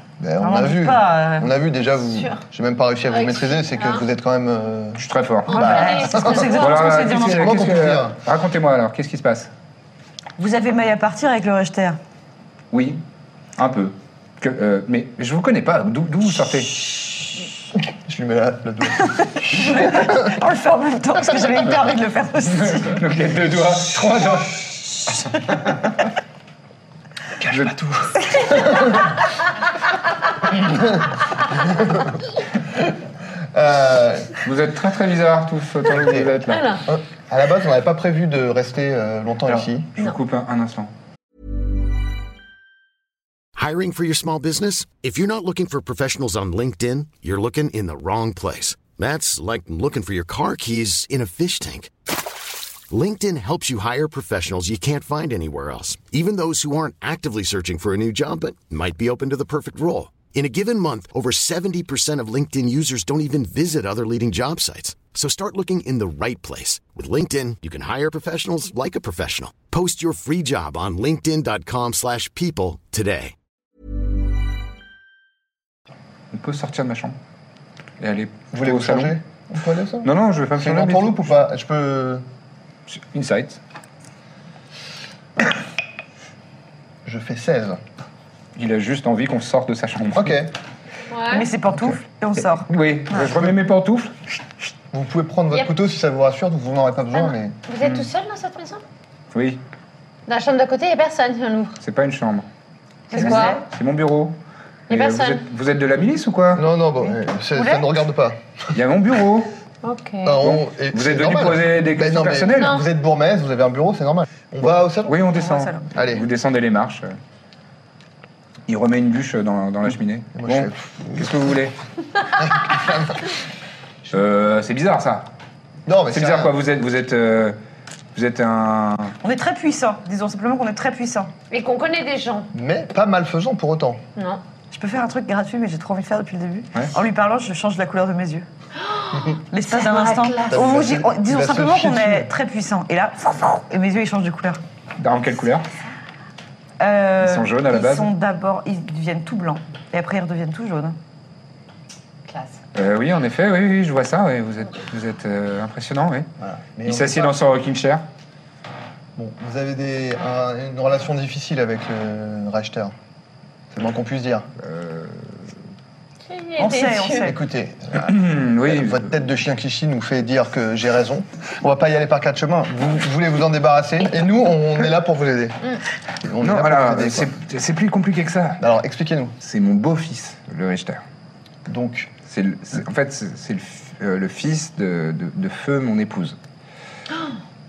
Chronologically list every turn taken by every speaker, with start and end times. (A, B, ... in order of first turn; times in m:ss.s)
0:00.2-0:05.0 A
0:00.4-0:01.5 B
0:02.1-0:02.4 C
0:03.1-0:04.0 C
0:05.0-0:05.8 D
0:05.5-0:07.8 B
0:05.6-0:06.9 C
0:05.6-0:08.2 A
0:06.5-0:09.5 D
0:10.4-0:12.0 B
0:12.7-0:13.0 D
0:13.6-0:16.8 D
0:18.0-0:19.3 A
0:19.1-0:23.0 B
0:22.6-0:24.8 D
0:27.4-0:28.1 D
0:28.3-0:28.8 A
0:31.7-0:32.1 A
0:33.5-0:34.4 A
0:34.4-0:36.8 D
0:35.9-0:36.3 A
0:36.5-0:36.8 C
0:36.9-0:40.0 A
0:39.5-0:40.9 D
0:43.6-0:51.9 E
0:52.9-1:13.3 E
1:16.3-1:17.2 D
1:18.0-1:19.2 D
1:18.5-1:22.2 A
1:20.0-1:21.4 D
1:22.9-1:23.6 D
1:27.0-1:27.8 A
1:28.6-1:30.4 D
1:30.1-1:30.5 A
1:31.1-1:31.5 C
1:31.3-1:33.3 B
1:32.4-1:34.1 D
1:34.9-1:37.6 A
1:37.2-1:38.8 C
1:39.3-1:39.6 D
1:40.3-1:41.8 C
1:41.8-1:42.5 D
1:43.1-1:43.6 B
1:43.1-1:43.6 C
1:43.1-1:44.4 D
1:44.9-1:45.4 C
1:44.9-1:46.7 D
1:46.5-1:48.4 A
1:47.0-1:47.9 B
1:48.7-1:49.5 D
1:49.8-1:50.4 C
1:50.2-1:55.2 A
1:50.4-1:52.8 D
1:55.1-1:57.2 D
1:55.3-1:55.8 B
1:56.0-1:56.3 A
1:58.7-2:01.8 D
2:00.4-2:01.5 A
2:02.6-2:03.2 A
2:04.1-2:05.3 D
2:05.9-2:06.6 A
2:06.1-2:07.6 D
2:08.2-2:09.2 D
2:09.2-2:11.3 B
2:11.5-2:12.5 C
2:12.5-2:14.0 A
2:14.2-2:14.4 C
2:14.7-2:18.5 B
2:18.8-2:20.6 C
2:19.5-2:24.6 B
2:20.5-2:22.3 A
2:25.0-2:25.7 D
2:26.8-2:31.0 B
2:27.2-2:28.1 D
2:32.3-2:32.6 C
2:32.7-2:36.3 D
2:36.4-2:37.4 A
2:36.9-2:38.1 D
2:39.2-2:42.9 A
2:43.7-2:44.5 A
2:44.6-2:45.4 D
2:46.3-2:47.2 C
2:46.6-2:47.4 B
2:47.1-2:55.6 A
2:48.0-2:49.1 D
2:56.2-2:57.3 A
2:56.4-2:58.6 D
2:58.6-2:59.4 A
2:59.4-3:01.0 D
3:01.7-3:02.1 A
3:02.2-3:06.4 D